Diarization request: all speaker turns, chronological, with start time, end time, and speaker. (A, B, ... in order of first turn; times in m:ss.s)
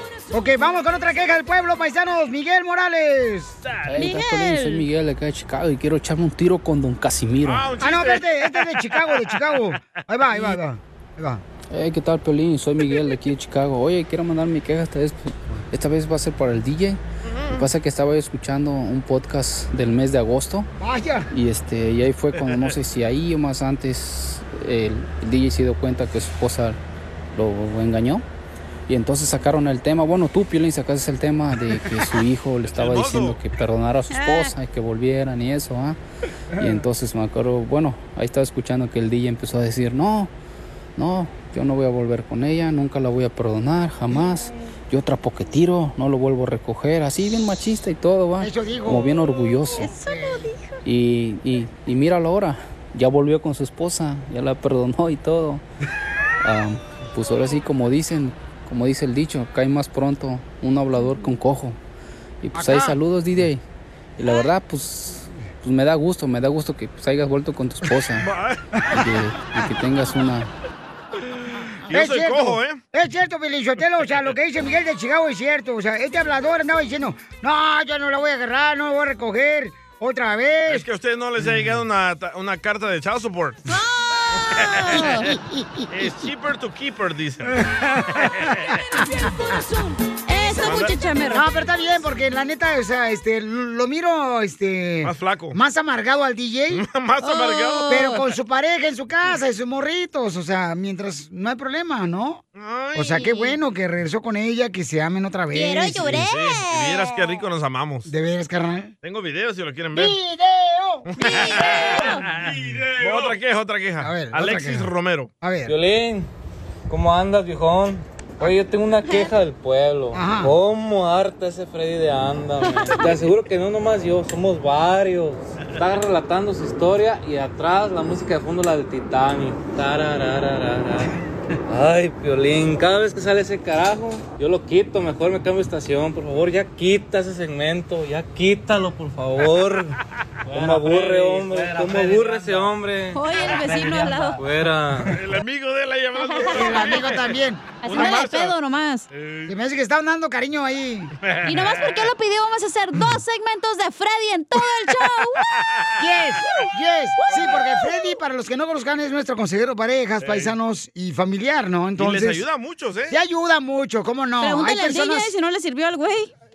0:00.3-0:03.6 A
0:03.7-0:04.0 B
0:03.9-0:07.6 C
0:04.0-0:04.8 D
0:07.4-0:09.6 B
0:07.8-0:11.4 A
0:11.7-0:17.0 C
0:17.2-0:17.7 B
0:17.5-0:20.7 C
0:20.8-0:21.3 A
0:21.3-0:26.8 C
0:22.3-0:22.8 B
0:27.3-0:28.2 C
0:28.9-0:36.0 C
0:32.7-0:33.4 B
0:34.1-0:34.5 D
0:36.6-0:40.3 C
0:41.0-0:49.8 C
0:48.4-0:50.5 A
0:49.7-0:50.8 D
0:50.8-0:55.6 C
0:56.4-1:01.8 C
1:02.4-1:03.6 C
1:02.5-1:03.0 A
1:04.2-1:08.2 C
1:08.2-1:08.6 B
1:08.9-1:10.5 C
1:11.9-1:20.8 A
1:11.9-1:12.8 B
1:20.7-1:23.6 B
1:23.6-1:25.3 D
1:24.7-1:25.1 B
1:25.9-1:27.6 B
1:27.5-1:27.9 A
1:28.2-1:28.6 B
1:29.1-1:31.5 D
1:30.6-1:31.0 B
1:31.3-1:36.8 A
1:35.0-1:35.6 B
1:36.7-1:37.9 B
1:37.2-1:38.2 D
1:37.9-1:42.4 A
1:42.6-1:43.3 B
1:42.9-1:46.1 A
1:43.2-1:43.6 D
1:45.5-1:47.4 D
1:46.0-1:48.1 B
1:48.0-1:48.9 A
1:49.0-1:50.2 B
1:49.9-1:51.8 A
1:51.0-1:55.3 B
1:51.2-1:52.2 D
1:54.0-1:55.7 A
1:55.6-1:56.3 E
1:56.9-2:11.1 E
1:59.0-1:59.3 D
2:00.1-2:00.5 A
2:02.6-2:03.1 D
2:11.7-2:23.2 E
2:23.1-2:24.4 D
2:24.3-2:25.2 E
2:25.1-2:28.5 B
2:26.2-2:26.8 D
2:26.4-2:28.3 A
2:27.8-2:29.1 D
2:29.1-2:29.5 B
2:29.5-2:31.1 A
2:31.2-2:32.0 B
2:31.4-2:35.4 D
2:36.0-2:42.4 A
2:37.2-2:38.1 D
2:37.3-2:37.6 B
2:40.2-2:40.5 B
2:42.0-2:43.2 B
2:43.1-2:45.3 A
2:44.4-2:46.3 D